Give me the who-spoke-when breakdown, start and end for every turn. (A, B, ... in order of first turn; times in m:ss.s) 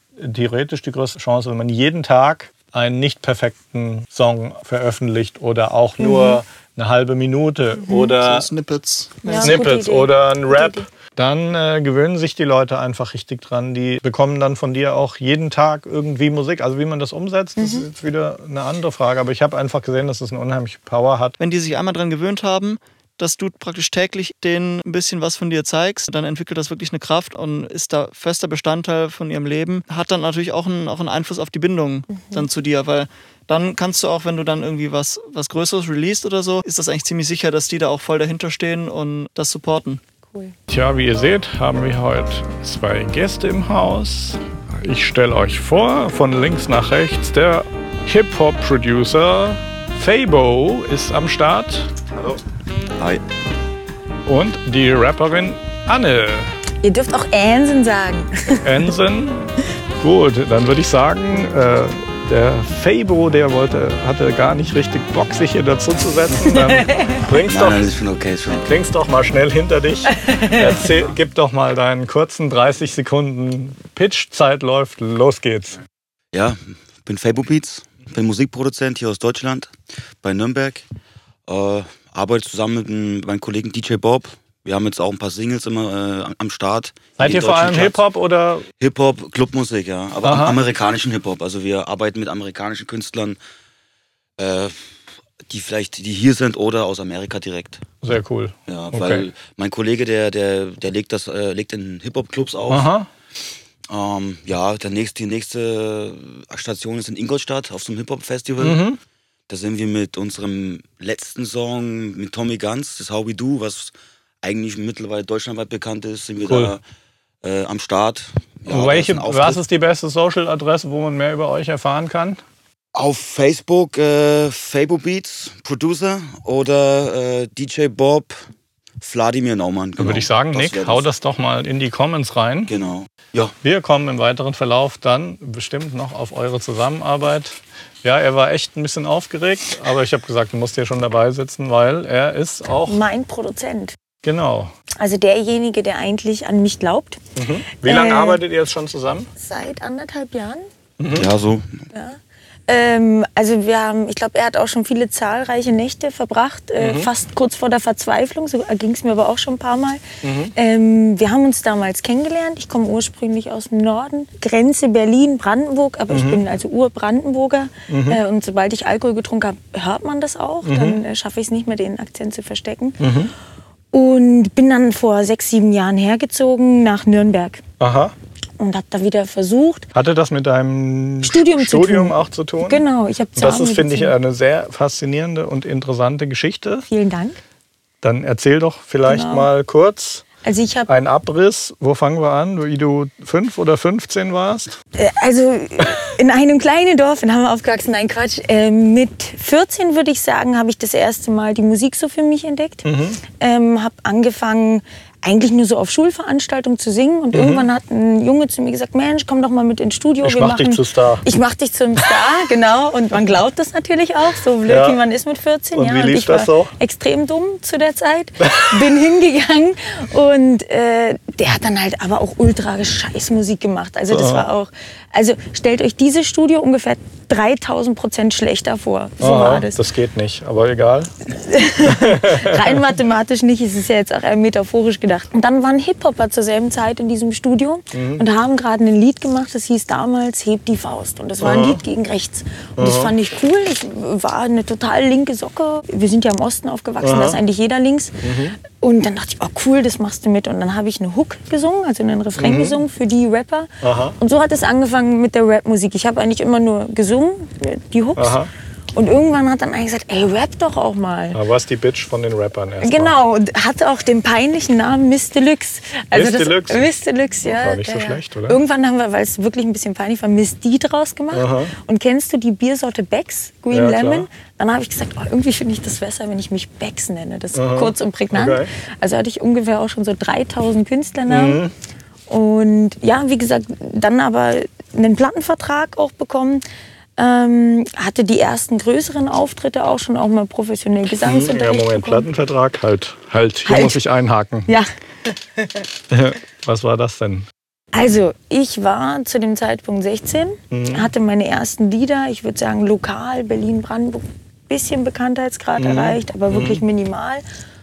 0:00.2-0:08.5 A
0:06.0-0:06.4 B
0:07.9-0:08.1 B
0:08.2-0:09.6 C
0:09.3-0:10.9 B
0:09.4-0:21.4 A
0:17.6-0:17.9 B
0:21.4-0:40.0 C
0:32.1-0:32.5 B
0:40.3-0:40.6 B
0:40.7-0:51.9 A
0:53.0-0:53.2 D
0:54.3-0:56.6 A
0:56.8-0:58.9 B
0:58.6-1:07.9 A
1:06.5-1:07.2 B
1:07.5-1:08.7 D
1:08.6-1:15.8 A
1:10.2-1:10.7 B
1:16.3-1:20.8 D
1:21.5-1:28.0 D
1:27.2-1:28.7 A
1:28.8-1:33.4 D
1:30.2-1:30.6 A
1:34.4-1:34.9 D
1:35.5-1:37.8 D
1:38.0-1:39.3 A
1:38.7-1:42.9 D
1:42.7-1:43.1 A
1:43.9-1:48.8 D
1:48.6-1:49.0 A
1:49.5-1:56.8 D
1:56.4-1:56.7 A
1:57.4-1:59.6 D
1:58.7-2:02.4 A
2:02.9-2:08.4 D
2:09.0-2:11.1 D
2:10.0-2:12.7 A
2:12.7-2:13.5 D
2:13.6-2:23.0 A
2:22.9-2:24.0 B
2:24.2-2:24.7 A
2:25.0-2:27.2 B
2:27.4-2:29.3 A
2:27.8-2:28.4 B
2:29.4-2:30.6 B
2:31.0-2:31.3 A
2:31.2-2:31.8 D
2:31.9-2:53.0 B
2:36.8-2:37.1 A
2:40.2-2:40.5 A
2:46.1-2:46.4 A
2:47.9-2:48.2 A
2:50.6-2:51.0 A
2:53.0-2:53.3 A
2:53.9-2:57.6 B
2:57.8-2:58.1 A
2:58.6-2:59.9 B
2:59.9-3:02.8 A
3:01.2-3:04.1 B
3:03.4-3:06.9 A
3:06.9-3:07.4 B
3:08.0-3:10.2 A
3:09.1-3:09.5 B
3:10.4-3:10.9 B
3:10.9-3:14.8 A
3:15.0-3:49.8 B
3:22.8-3:23.2 A
3:27.3-3:27.6 A
3:30.2-3:31.2 A
3:34.6-3:35.0 A
3:35.7-3:36.7 A
3:44.1-3:44.5 A
3:49.2-3:51.1 A
3:51.3-4:18.4 B
3:51.9-3:52.8 A
3:57.9-3:58.2 A
4:01.4-4:01.8 A
4:02.8-4:03.1 A
4:07.0-4:07.4 A
4:08.2-4:08.6 A
4:12.4-4:12.8 A
4:13.8-4:14.2 A
4:18.2-4:18.5 A
4:19.0-4:21.4 B
4:21.3-4:23.1 A
4:22.8-4:41.6 B
4:26.1-4:26.9 A
4:27.4-4:28.6 A
4:31.3-4:31.7 A
4:33.7-4:34.3 A
4:37.5-4:38.7 A
4:41.3-4:41.7 A
4:42.3-4:46.6 B
4:47.2-4:52.3 B
4:51.2-4:54.7 A
4:53.7-4:54.0 B
4:54.7-4:55.8 B
4:56.1-4:57.4 A
4:57.9-5:07.4 B
5:00.7-5:01.1 A
5:05.8-5:06.8 A